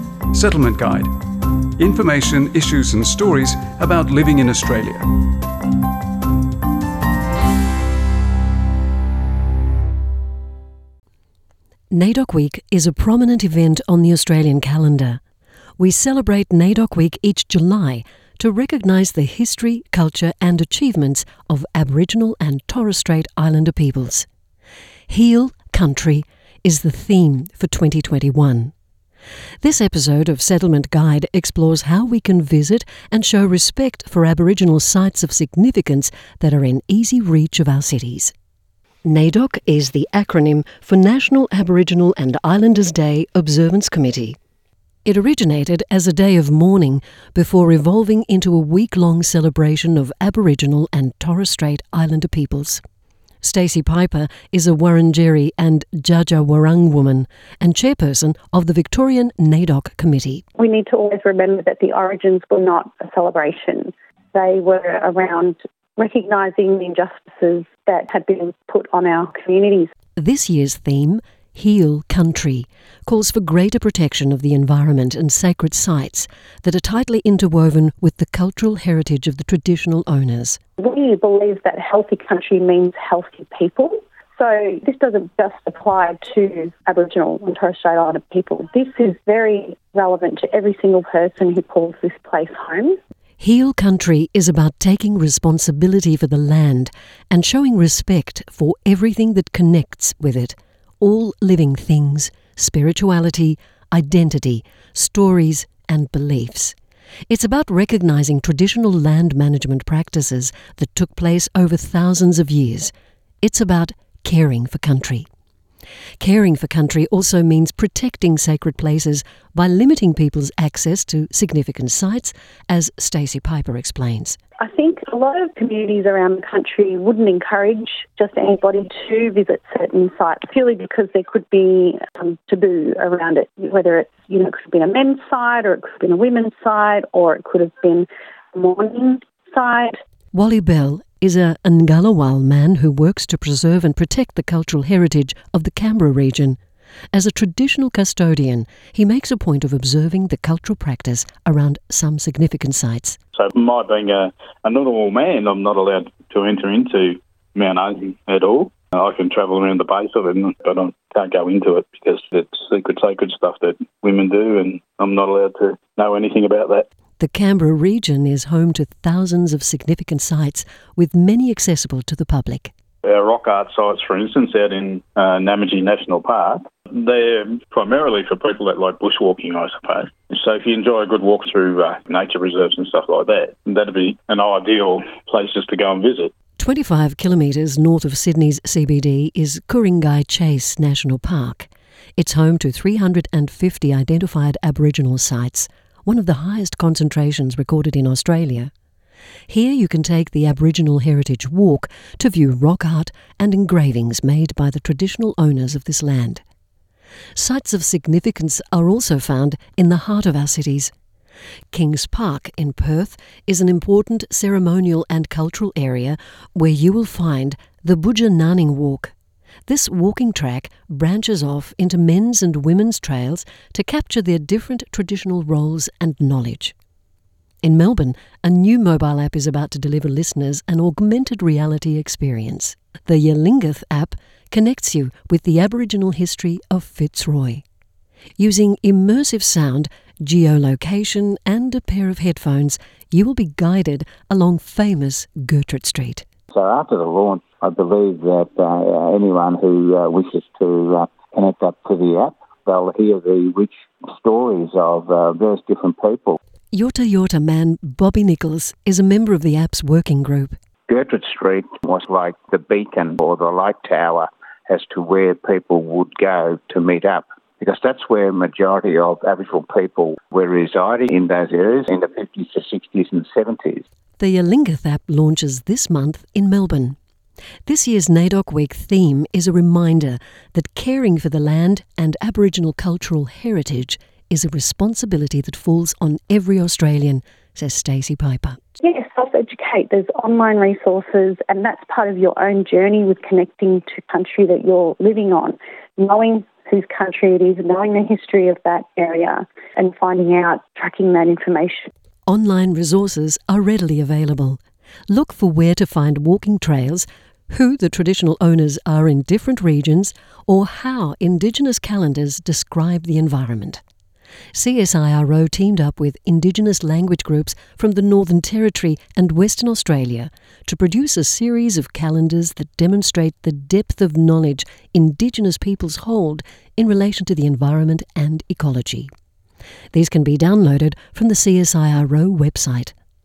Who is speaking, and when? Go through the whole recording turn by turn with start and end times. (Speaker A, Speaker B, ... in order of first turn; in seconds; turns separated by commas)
Speaker A: 0.3-1.1, Speaker A: 1.8-5.1, Speaker B: 11.9-15.2, Speaker B: 15.8-24.3, Speaker B: 25.1-28.7, Speaker B: 29.6-38.3, Speaker B: 39.0-44.4, Speaker B: 45.0-52.8, Speaker B: 53.4-60.4, Speaker C: 60.6-69.9, Speaker B: 70.2-80.6, Speaker C: 80.8-93.0, Speaker B: 93.4-106.8, Speaker B: 107.3-115.3, Speaker B: 116.2-124.4, Speaker C: 124.6-139.9, Speaker B: 140.3-146.6, Speaker B: 147.1-153.2, Speaker D: 153.3-166.8, Speaker B: 167.2-172.7, Speaker D: 173.0-186.3, Speaker B: 186.6-198.7, Speaker B: 199.5-206.4, Speaker B: 207.3-210.9, Speaker B: 211.7-219.1, Speaker B: 219.7-226.7, Speaker B: 227.6-237.6, Speaker B: 238.4-246.2, Speaker E: 246.5-256.4, Speaker B: 256.7-260.6, Speaker E: 260.9-273.8, Speaker B: 274.2-276.9, Speaker B: 277.6-288.6, Speaker C: 288.8-301.9, Speaker B: 302.3-313.8, Speaker B: 314.5-329.1, Speaker B: 329.9-332.9